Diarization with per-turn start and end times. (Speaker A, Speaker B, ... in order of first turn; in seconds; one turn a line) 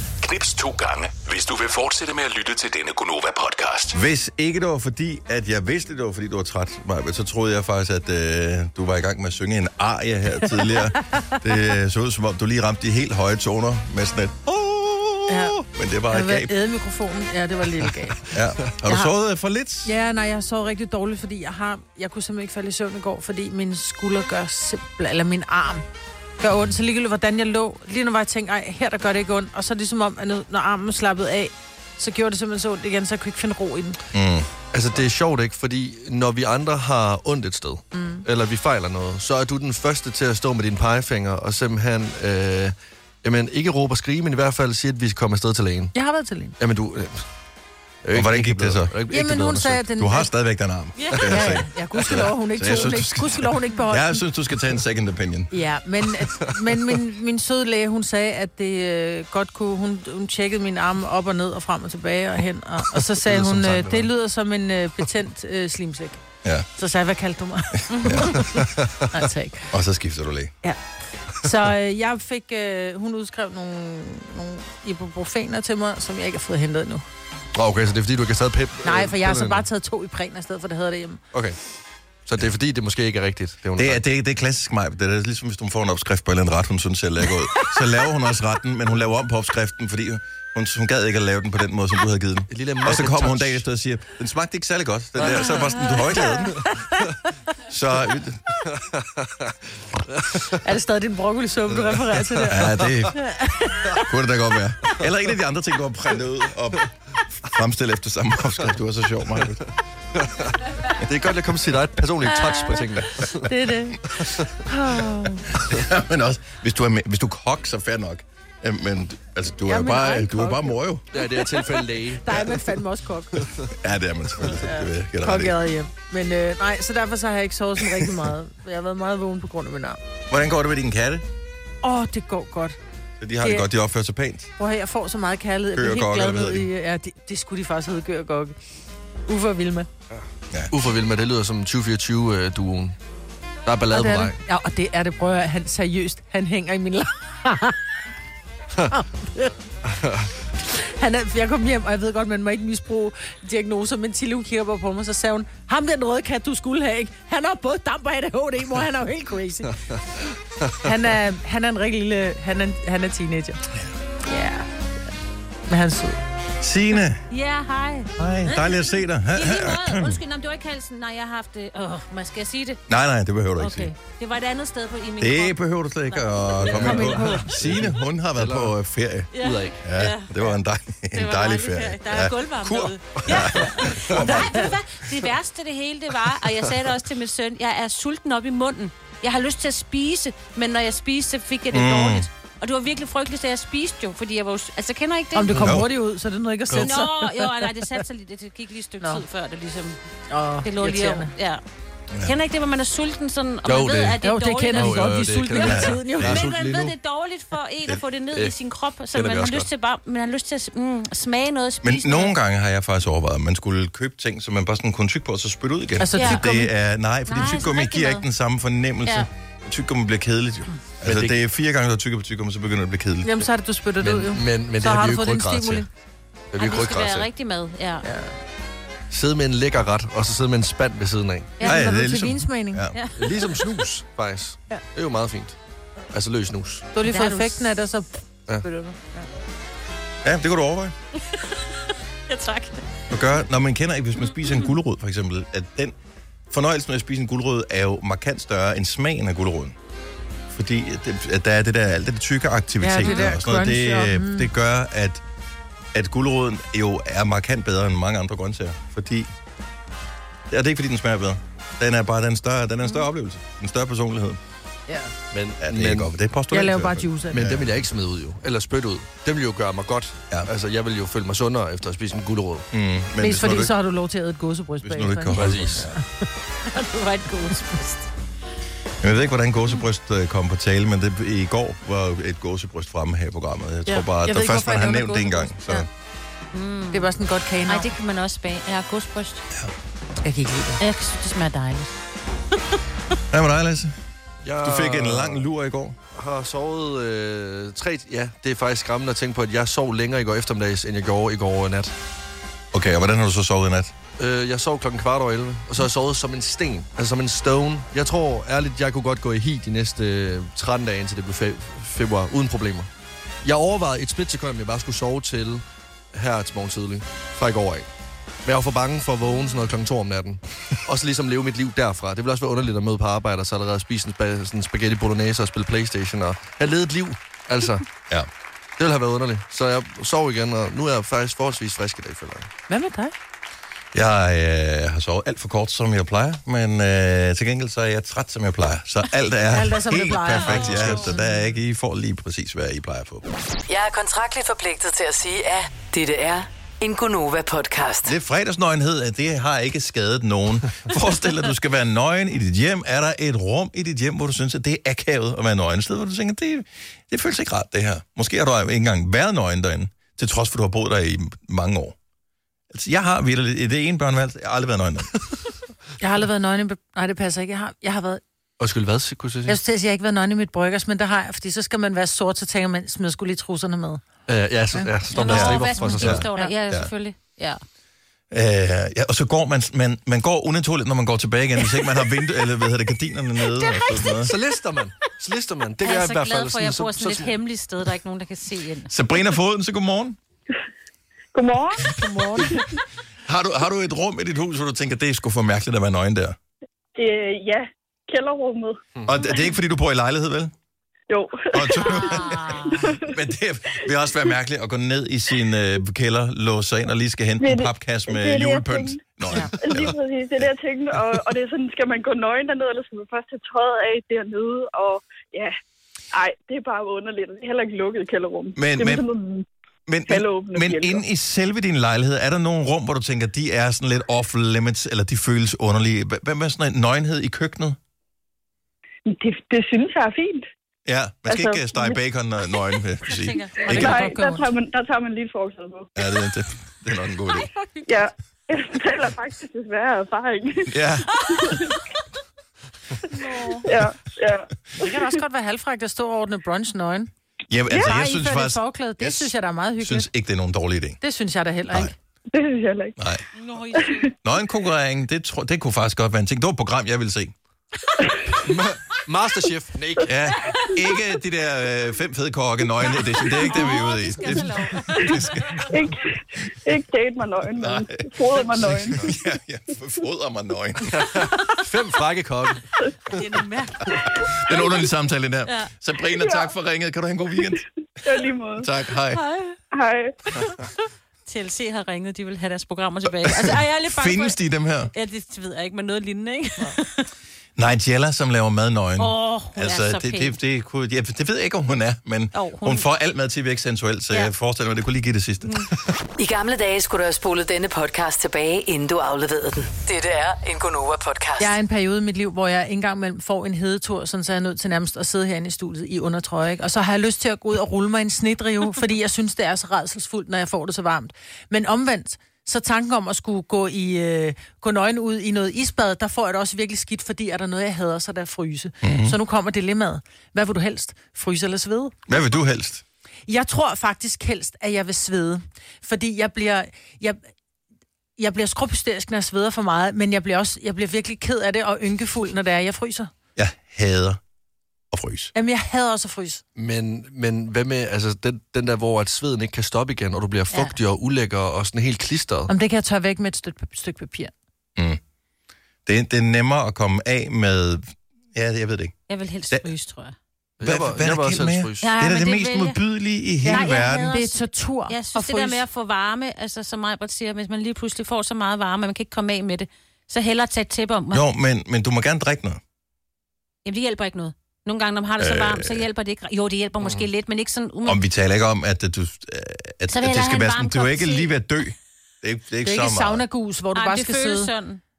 Speaker A: 0.2-4.0
Speaker B: 3.9-16.5
Speaker C: 15.3-15.6
Speaker C: 16.1-18.3
Speaker B: 18.3-19.9
Speaker C: 18.8-19.1
Speaker C: 19.9-25.9
Speaker C: 26.4-34.0
Speaker B: 34.1-34.5
Speaker D: 34.7-45.9
Speaker C: 37.9-38.2
Speaker C: 45.9-46.6
Speaker D: 46.6-47.2
Speaker D: 48.0-49.9
Speaker B: 48.1-49.0
Speaker C: 49.1-50.3
Speaker B: 50.0-55.5
Speaker C: 51.2-54.2
Speaker C: 55.5-66.2
Speaker D: 63.0-64.1
Speaker C: 66.8-69.7
Speaker E: 67.9-68.2
Speaker B: 68.0-68.5
Speaker D: 68.2-69.1
Speaker B: 69.7-70.5
Speaker C: 71.3-77.0
Speaker D: 77.5-79.7
Speaker C: 78.8-81.2
Speaker D: 81.3-81.6
Speaker D: 82.2-84.0
Speaker B: 83.8-96.7
Speaker D: 92.5-93.6
Speaker D: 95.2-96.7
Speaker C: 95.8-97.0
Speaker B: 97.7-98.5
Speaker D: 98.6-99.5
Speaker D: 100.1-100.6
Speaker C: 100.6-104.1
Speaker D: 101.7-103.1
Speaker B: 102.5-103.2
Speaker B: 104.0-109.7
Speaker D: 110.2-113.5
Speaker C: 112.3-115.6
Speaker D: 114.2-114.5
Speaker B: 115.5-121.1
Speaker C: 119.7-123.5
Speaker D: 121.1-122.6
Speaker D: 123.3-123.7
Speaker B: 123.7-125.6
Speaker C: 124.5-130.0
Speaker B: 130.3-131.3
Speaker C: 131.8-132.8
Speaker B: 133.2-134.5
Speaker C: 133.4-133.7
Speaker C: 134.6-138.6
Speaker B: 135.7-136.7
Speaker C: 139.3-139.9
Speaker D: 140.1-143.0
Speaker D: 143.7-144.4
Speaker C: 143.9-147.9
Speaker C: 148.9-149.6
Speaker D: 149.9-150.3
Speaker C: 150.6-159.8
Speaker C: 160.8-163.6
Speaker C: 164.2-164.7
Speaker C: 165.7-166.2
Speaker B: 166.6-167.2
Speaker E: 167.3-172.8
Speaker B: 168.2-170.2
Speaker B: 172.9-173.9
Speaker E: 173.6-176.4
Speaker B: 175.2-184.8
Speaker D: 176.6-178.7
Speaker C: 176.8-177.5
Speaker E: 179.3-180.6
Speaker D: 179.4-179.8
Speaker E: 181.1-195.6
Speaker D: 183.3-184.3
Speaker B: 191.7-192.3
Speaker C: 195.3-197.8
Speaker B: 195.5-195.9
Speaker E: 196.8-200.0
Speaker C: 200.3-201.3
Speaker E: 200.6-201.6
Speaker B: 202.1-202.4
Speaker E: 202.2-212.3
Speaker D: 203.7-204.2
Speaker C: 204.2-206.4
Speaker D: 204.7-206.9
Speaker B: 205.6-206.4
Speaker D: 209.1-209.7
Speaker B: 211.8-223.5
Speaker C: 216.0-216.7
Speaker E: 216.2-216.5
Speaker E: 217.3-218.3
Speaker D: 221.1-221.4
Speaker C: 223.2-225.9
Speaker D: 224.0-225.9
Speaker D: 226.5-227.3
Speaker E: 226.6-228.1
Speaker C: 228.0-228.3
Speaker D: 229.1-231.6
Speaker E: 231.6-231.9
Speaker C: 231.6-232.9
Speaker B: 231.6-233.0
Speaker E: 232.9-233.7
Speaker D: 233.2-235.6
Speaker D: 236.1-236.9
Speaker C: 236.9-239.3
Speaker E: 237.0-237.7
Speaker B: 240.2-240.9
Speaker E: 242.3-242.8
Speaker B: 243.1-245.9
Speaker B: 246.5-249.8
Speaker B: 250.5-255.2
Speaker C: 252.8-254.5
Speaker B: 255.9-259.3
Speaker B: 260.5-264.4
Speaker D: 265.3-266.1
Speaker B: 265.6-267.8
Speaker C: 266.5-267.4
Speaker D: 267.3-272.7
Speaker B: 272.7-273.7
Speaker C: 273.2-276.1
Speaker B: 274.8-275.9
Speaker D: 275.3-275.9
Speaker E: 276.7-278.1
Speaker B: 279.0-285.9
Speaker C: 283.9-285.9
Speaker E: 286.5-287.1
Speaker C: 286.9-287.9
Speaker E: 287.7-289.4
Speaker C: 290.2-290.8
Speaker E: 290.8-291.9
Speaker B: 293.3-293.9
Speaker D: 294.4-295.5
Speaker B: 294.6-296.0
Speaker D: 296.1-301.9
Speaker B: 302.7-303.9
Speaker D: 304.2-312.9
Speaker D: 313.4-317.9
Speaker D: 318.4-327.9
Speaker D: 328.8-332.5
Speaker C: 332.7-333.1
Speaker B: 333.9-343.3
Speaker C: 339.5-341.1
Speaker E: 340.4-341.1
Speaker D: 340.6-341.0
Speaker F: 343.7-348.1
Speaker B: 348.1-362.0
Speaker B: 362.7-365.1
Speaker C: 366.0-368.2
Speaker D: 368.6-369.6
Speaker C: 369.5-374.0
Speaker D: 374.3-376.2
Speaker E: 375.1-377.6
Speaker B: 375.3-376.9
Speaker B: 378.3-384.3
Speaker D: 384.2-387.4
Speaker E: 385.8-388.9
Speaker B: 388.9-390.2
Speaker G: 391.3-391.9
Speaker C: 391.9-392.6
Speaker B: 393.3-396.4
Speaker G: 397.0-398.8
Speaker D: 399.0-399.2
Speaker B: 399.1-400.5
Speaker G: 401.1-403.1
Speaker B: 401.5-410.0
Speaker E: 401.8-402.9
Speaker G: 407.4-409.0
Speaker G: 409.6-415.6
Speaker G: 416.1-419.4
Speaker B: 418.6-419.1
Speaker B: 419.9-427.8
Speaker G: 420.1-421.0
Speaker G: 429.1-430.5
Speaker B: 430.9-434.0
Speaker G: 431.3-432.0
Speaker E: 433.1-434.1
Speaker C: 433.7-434.5
Speaker G: 433.7-435.9
Speaker B: 436.0-437.5
Speaker E: 437.3-437.8
Speaker G: 437.9-440.7
Speaker B: 440.7-441.7
Speaker G: 441.4-441.7
Speaker C: 443.1-443.7
Speaker G: 443.6-445.0
Speaker C: 444.8-447.1
Speaker B: 447.5-451.0
Speaker C: 447.7-450.1
Speaker C: 451.0-451.9
Speaker G: 452.3-452.9
Speaker B: 453.0-453.2
Speaker E: 453.4-454.1
Speaker B: 454.2-457.3
Speaker D: 458.4-460.2
Speaker B: 460.0-465.9
Speaker E: 463.3-465.7
Speaker G: 465.7-469.1
Speaker B: 467.6-471.3
Speaker D: 468.7-469.1
Speaker D: 470.9-473.2
Speaker E: 473.1-474.3
Speaker B: 474.0-479.2
Speaker E: 475.5-475.7
Speaker G: 476.2-476.5
Speaker G: 478.0-478.7
Speaker E: 479.1-479.6
Speaker G: 479.7-480.1
Speaker E: 481.3-484.4
Speaker B: 483.2-484.9
Speaker E: 484.9-487.1
Speaker B: 487.6-495.7
Speaker E: 489.0-490.4
Speaker E: 492.4-492.9
Speaker F: 496.2-501.6
Speaker C: 501.4-522.0
Speaker B: 518.8-519.2
Speaker B: 522.1-522.8
Speaker C: 523.3-527.2
Speaker C: 528.2-533.1
Speaker B: 533.4-534.2
Speaker B: 534.9-535.3
Speaker C: 535.4-536.4
Speaker D: 536.6-542.5
Speaker E: 540.5-540.8
Speaker C: 542.5-544.3
Speaker B: 545.9-549.0
Speaker E: 549.1-550.2
Speaker D: 550.6-551.9
Speaker B: 550.6-554.2
Speaker E: 551.8-552.8
Speaker C: 553.4-555.6
Speaker E: 553.5-561.2
Speaker B: 561.1-562.6
Speaker E: 563.6-568.0
Speaker B: 565.2-565.9
Speaker D: 566.8-567.1
Speaker B: 567.8-573.2
Speaker E: 569.9-571.3
Speaker C: 572.6-574.5
Speaker E: 573.7-574.8